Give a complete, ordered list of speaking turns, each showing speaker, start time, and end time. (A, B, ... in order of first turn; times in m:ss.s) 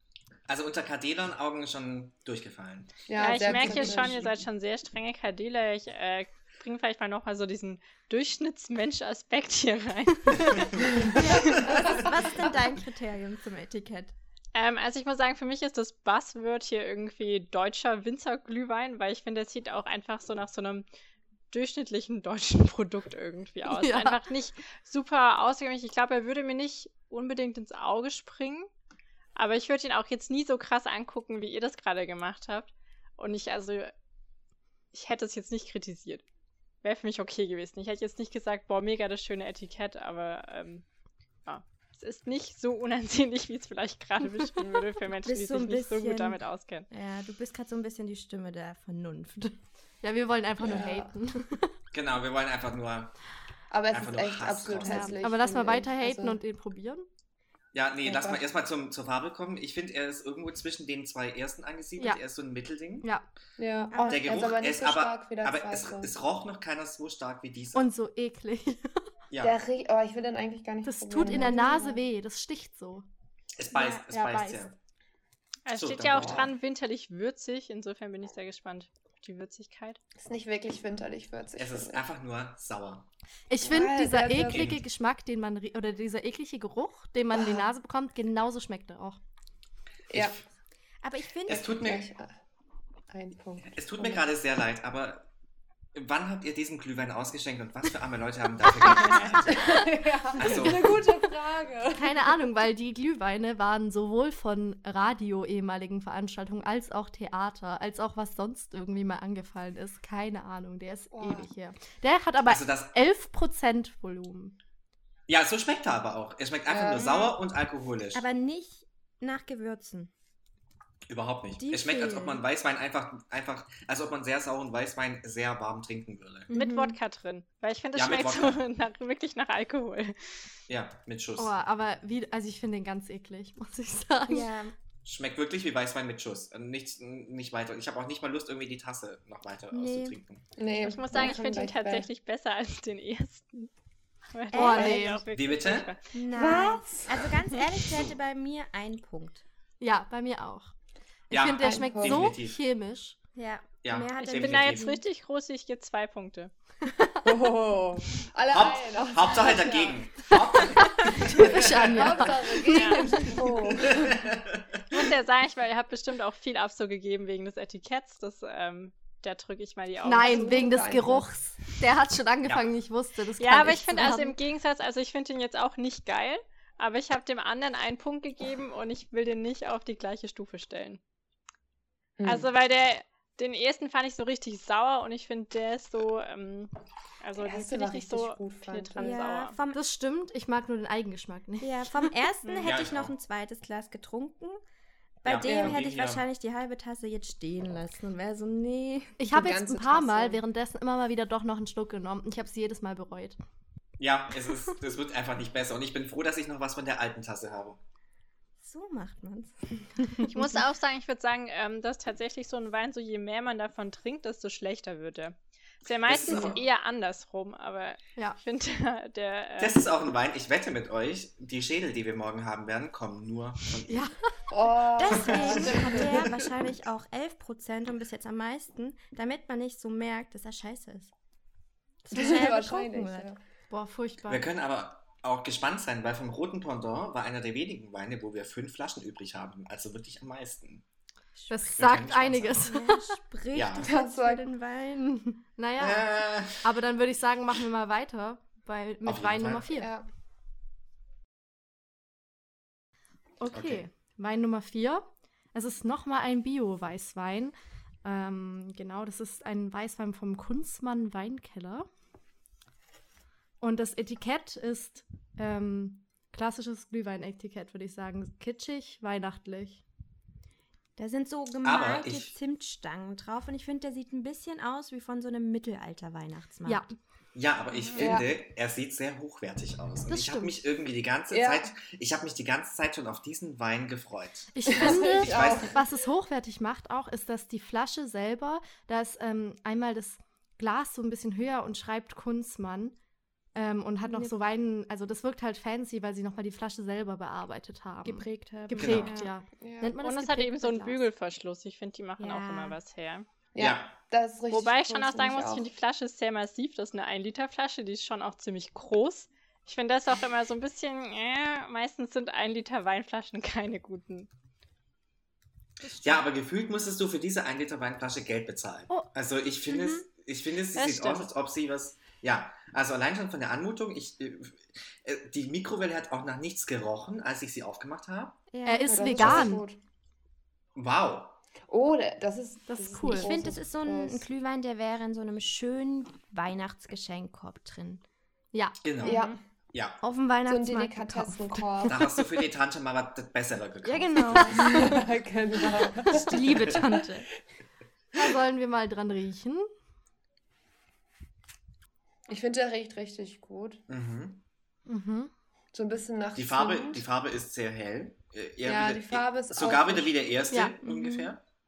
0:00.5-0:03.7 A
0:03.1-0:04.3 B
0:03.2-0:11.9 C
0:11.0-0:14.1 D
0:14.5-0:20.8 C
0:21.5-0:28.7 C
0:23.7-0:24.2 E
0:29.4-0:33.9 C
0:34.9-0:36.2 C
0:36.8-0:40.8 C
0:41.4-0:46.9 C
0:45.2-0:49.6 D
0:50.0-0:51.7 E
0:50.6-0:51.1 B
0:51.9-0:53.1 A
0:53.7-0:56.4 B
0:53.9-0:55.1 A
0:54.7-0:57.0 E
0:57.7-1:03.1 A
0:58.0-0:58.4 B
1:03.6-1:06.1 B
1:03.9-1:04.2 D
1:03.9-1:04.2 E
1:04.1-1:07.9 A
1:07.7-1:09.0 E
1:09.3-1:09.5 A
1:09.4-1:12.0 B
1:10.8-1:13.0 E
1:13.6-1:14.7 A
1:13.7-1:14.7 E
1:15.6-1:20.0 C
1:15.7-1:16.5 A
1:20.2-1:22.0 B
1:21.6-1:23.1 A
1:23.5-1:29.2 E
1:23.6-1:24.7 B
1:24.5-1:24.8 A
1:27.3-1:27.6 B
1:30.1-1:30.4 B
1:30.1-1:30.4 A
1:31.0-1:31.7 D
1:31.5-1:32.1 A
1:31.5-1:32.3 B
1:33.1-1:34.2 B
1:33.7-1:35.3 A
1:35.9-1:39.7 A
1:39.0-1:42.4 B
1:40.4-1:41.0 A
1:41.9-1:54.6 E
1:51.1-1:51.5 B
1:52.4-1:52.9 A
1:55.3-1:58.2 A
1:56.7-1:57.3 B
1:58.1-2:00.1 D
2:01.1-2:06.5 A
2:01.6-2:02.4 D
2:06.5-2:06.9 D
2:06.5-2:10.3 C
2:07.9-2:08.6 A
2:10.7-2:11.5 A
2:11.4-2:14.5 E
2:14.3-2:14.7 D
2:15.0-2:20.4 A
2:19.7-2:20.2 D
2:20.6-2:22.1 B
2:20.8-2:23.7 C
2:24.3-2:26.1 C
2:24.5-2:25.0 D
2:24.5-2:25.2 E
2:24.7-2:25.0 B
2:25.3-2:25.9 A
2:26.1-2:29.4 D
2:26.3-2:27.4 B
2:27.9-2:28.1 A
2:29.8-2:30.7 E
2:31.3-2:32.6 A
2:31.3-2:33.2 E
2:31.6-2:32.3 B
2:33.3-2:35.0 D
2:33.8-2:34.9 A
2:34.2-2:36.5 C
2:36.8-2:37.3 E
2:37.2-2:40.1 B
2:38.5-2:41.8 A
2:40.8-2:43.4 E
2:41.3-2:44.2 B
2:42.6-2:43.4 C
2:43.8-2:44.8 A
2:44.9-2:50.9 C
2:50.0-2:54.4 E
2:50.1-2:51.3 B
2:53.4-3:01.0 C
3:02.2-3:02.5 B
3:02.2-3:09.6 C
3:07.4-3:09.2 B
3:09.0-3:09.8 D
3:09.7-3:12.1 E
3:11.6-3:14.6 D
3:12.4-3:12.7 C
3:12.6-3:13.1 A
3:15.2-3:19.2 D
3:15.2-3:16.2 A
3:15.4-3:15.8 B
3:19.2-3:23.4 E
3:19.3-3:20.4 B
3:24.0-3:27.8 A
3:28.6-3:30.4 D
3:30.3-3:39.8 C
3:36.0-3:36.6 A
3:39.6-3:44.1 A
3:43.9-3:44.2 E
3:44.5-3:46.4 B
3:45.0-3:51.1 D
3:45.1-3:45.8 A
3:52.0-3:53.3 D
3:52.1-3:53.4 B
3:53.7-3:54.4 E
3:54.3-4:00.8 A
4:01.4-4:01.6 D
4:01.5-4:03.2 E
4:01.7-4:02.6 A
4:02.6-4:05.4 D
4:03.5-4:03.9 A
4:03.8-4:04.5 B
4:05.6-4:09.9 E
4:05.8-4:06.7 A
4:09.0-4:09.8 A
4:09.8-4:10.0 B
4:13.4-4:21.9 E
4:13.5-4:13.8 A
4:23.6-4:29.8 E
4:31.0-4:36.9 D
4:31.6-4:32.3 A
4:36.6-4:36.9 E
4:37.3-4:45.8 A
4:37.8-4:38.1 C
4:38.0-4:38.3 B
4:40.1-4:40.5 E
4:41.3-4:41.7 B
4:44.5-4:53.0 E
4:44.7-4:45.8 B
4:53.5-5:01.0 E
4:54.0-4:54.3 D
4:58.0-4:59.3 D
4:58.7-4:59.2 A
4:59.6-4:59.9 B
5:00.0-5:03.2 C
5:02.2-5:02.8 D
5:03.5-5:05.7 B
5:03.6-5:03.9 A
5:04.5-5:14.3 C
5:15.8-5:16.2 E
5:16.0-5:28.4 A
5:19.7-5:20.0 D
5:20.7-5:21.3 C
5:28.5-5:29.4 D
5:28.6-5:29.6 E
5:28.9-5:29.8 B
5:29.2-5:29.5 A
5:30.7-5:31.4 A
5:31.7-5:34.2 B
5:32.7-5:33.4 E
5:33.0-5:38.0 D
5:38.5-5:38.8 E
5:38.8-5:40.0 A
5:39.0-5:39.3 B
5:39.0-5:39.3 C
5:40.0-5:41.6 D
5:40.4-5:42.0 B
5:41.9-5:44.7 A
5:43.8-5:45.0 D
5:44.4-5:47.0 B
5:44.6-5:44.8 E
5:46.1-5:47.3 D
5:46.1-5:46.8 A
5:48.1-5:49.7 E
5:52.3-5:53.8 B
5:53.9-5:54.4 A
5:54.9-5:55.3 E
5:55.7-5:57.0 B
5:56.3-6:01.4 A
5:58.6-6:00.1 B
6:00.8-6:01.3 D